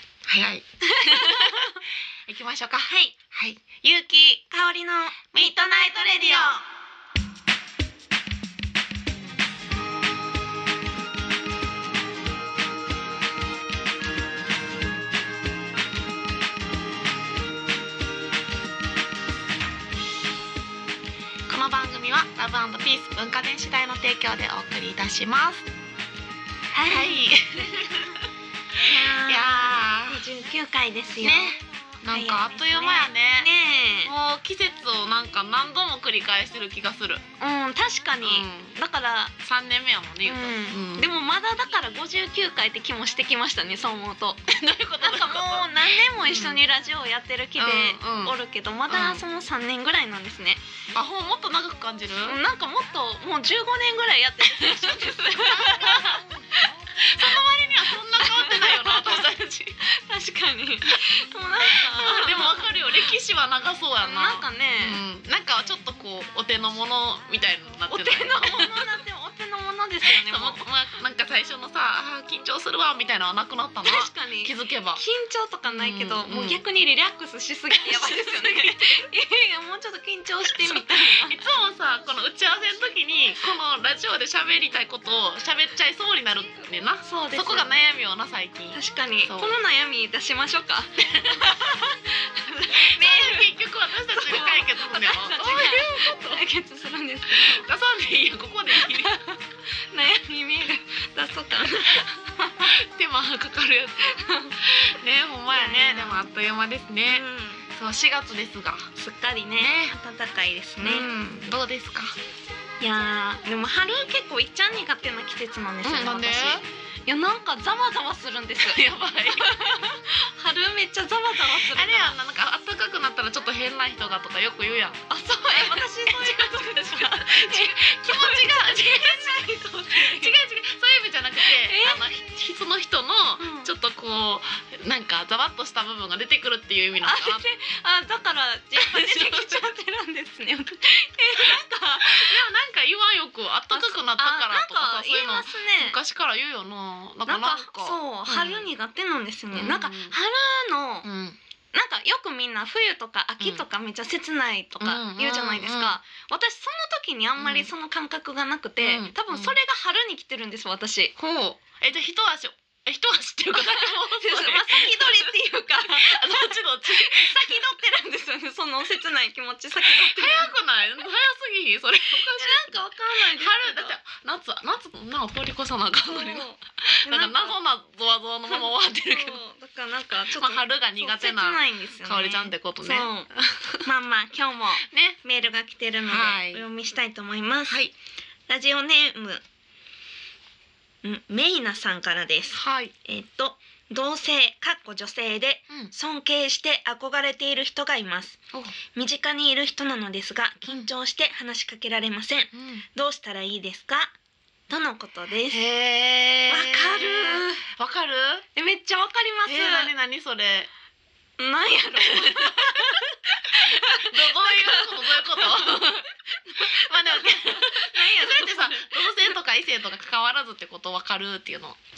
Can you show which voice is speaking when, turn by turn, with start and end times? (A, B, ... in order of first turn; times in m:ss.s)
0:00.3-0:04.4 A
0:00.8-0:01.8 B
0:02.9-0:03.2 B
0:04.5-0:06.6 B
0:05.3-0:06.5 A
0:21.5-0:25.7 A
0:26.7-0:27.3 B
0:26.9-0:28.2 A
0:28.8-0:31.6 B
0:29.2-0:30.2 A
0:31.2-0:33.5 A
0:32.1-0:34.1 B
0:34.0-0:37.2 A
0:37.4-0:39.3 B
0:38.2-0:38.8 A
0:39.4-0:41.1 A
0:40.2-0:44.4 B
0:44.5-0:46.6 A
0:45.0-0:50.6 B
0:47.6-0:48.3 A
0:48.9-0:49.2 A
0:50.9-0:52.4 A
0:52.2-0:57.4 B
0:54.6-0:56.2 A
0:57.0-0:59.8 A
0:58.2-0:59.2 B
0:59.8-1:02.7 B
1:01.9-1:08.9 A
1:04.0-1:05.0 B
1:07.9-1:10.6 B
1:10.0-1:15.0 A
1:13.8-1:21.4 B
1:15.7-1:16.6 A
1:17.8-1:18.8 A
1:20.5-1:29.5 A
1:27.0-1:27.7 B
1:28.7-1:33.5 B
1:32.8-1:36.2 A
1:34.1-1:37.7 B
1:37.3-1:39.2 A
1:38.7-1:39.4 B
1:39.9-1:42.7 B
1:42.6-1:44.2 A
1:44.0-1:44.6 B
1:44.8-1:47.2 A
1:45.5-1:46.2 B
1:47.0-1:47.6 B
1:47.7-1:48.9 A
1:49.0-1:51.0 B
1:49.6-1:49.9 A
1:50.8-1:52.1 A
1:52.8-2:02.1 B
1:55.8-1:56.6 A
1:58.6-1:59.5 A
2:01.5-2:17.4 A
2:05.1-2:10.3 B
2:11.4-2:12.1 B
2:13.4-2:13.7 B
2:17.0-2:22.4 B
2:18.8-2:19.6 A
2:21.4-2:28.7 A
2:23.7-2:26.0 B
2:27.3-2:31.0 B
2:29.5-2:30.1 A
2:31.0-2:31.4 A
2:31.7-2:41.1 B
2:34.8-2:36.0 A
2:37.4-2:37.7 A
2:38.8-2:39.5 A
2:41.2-2:47.6 A
2:43.6-2:50.5 B
2:49.8-2:59.4 A
2:52.4-2:53.9 B
2:56.1-2:57.5 B
2:58.5-3:03.3 B
3:00.3-3:03.8 A
3:03.8-3:07.8 B
3:04.9-3:05.2 A
3:06.1-3:06.6 A
3:07.7-3:07.9 A
3:08.5-3:09.4 B
3:11.0-3:24.1 B
3:12.5-3:12.9 A
3:22.5-3:22.8 A
3:24.7-3:25.6 B
3:25.5-3:28.4 A
3:26.5-3:27.6 B
3:28.5-3:29.9 B
3:29.4-3:30.7 A
3:31.4-3:39.3 B
3:32.0-3:32.8 A
3:33.5-3:36.0 A
3:36.6-3:41.8 A